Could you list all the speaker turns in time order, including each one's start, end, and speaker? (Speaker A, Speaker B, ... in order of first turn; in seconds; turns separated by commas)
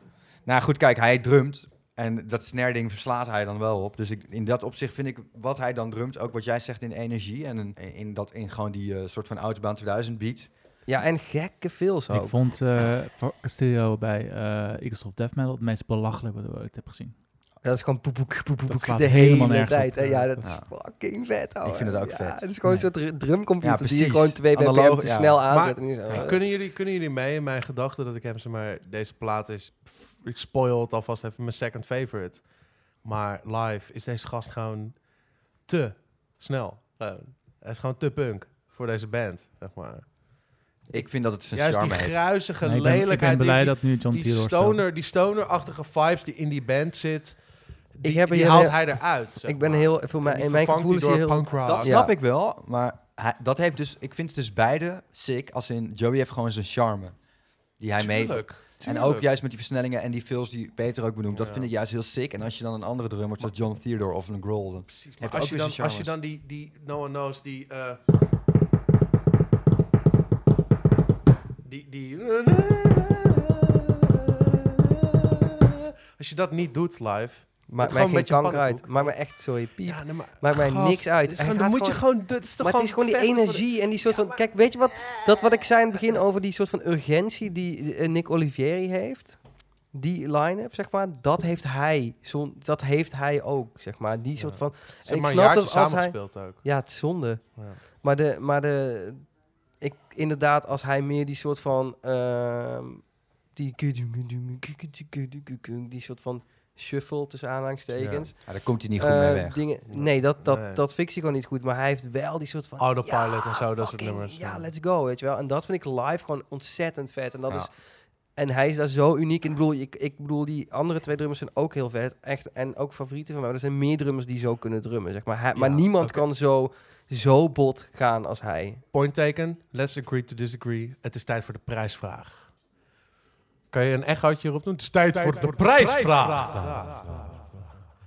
Speaker A: 0.5-10.5, Speaker B: 10.9-12.4, Speaker C: 12.1-17.1, Speaker B: 17.6-26.4, Speaker C: 18.7-20.3, Speaker A: 20.4-20.7, Speaker A: 21.6-22.5, Speaker C: 22.6-22.9, Speaker A: 23.6-26.3, Speaker D: 25.5-40.1, Speaker A: 40.9-42.4, Speaker D: 41.5-52.0, Speaker C: 42.5-44.9, Speaker B: 48.0-52.1, Speaker A: 51.6-66.2, Speaker D: 58.0-59.3, Speaker D: 61.3-61.7, Speaker D: 64.9-68.0, Speaker D: 71.6-85.3, Speaker B: 77.7-117.7, Speaker D: 94.4-96.7, Speaker D: 107.9-108.3, Speaker A: 108.4-109.6, Speaker D: 109.9-110.8, Speaker D: 112.8-114.7, Speaker B: 118.3-128.8, Speaker D: 125.5-126.2, Speaker D: 128.9-132.5, Speaker D: 133.7-137.7, Speaker A: 135.7-137.1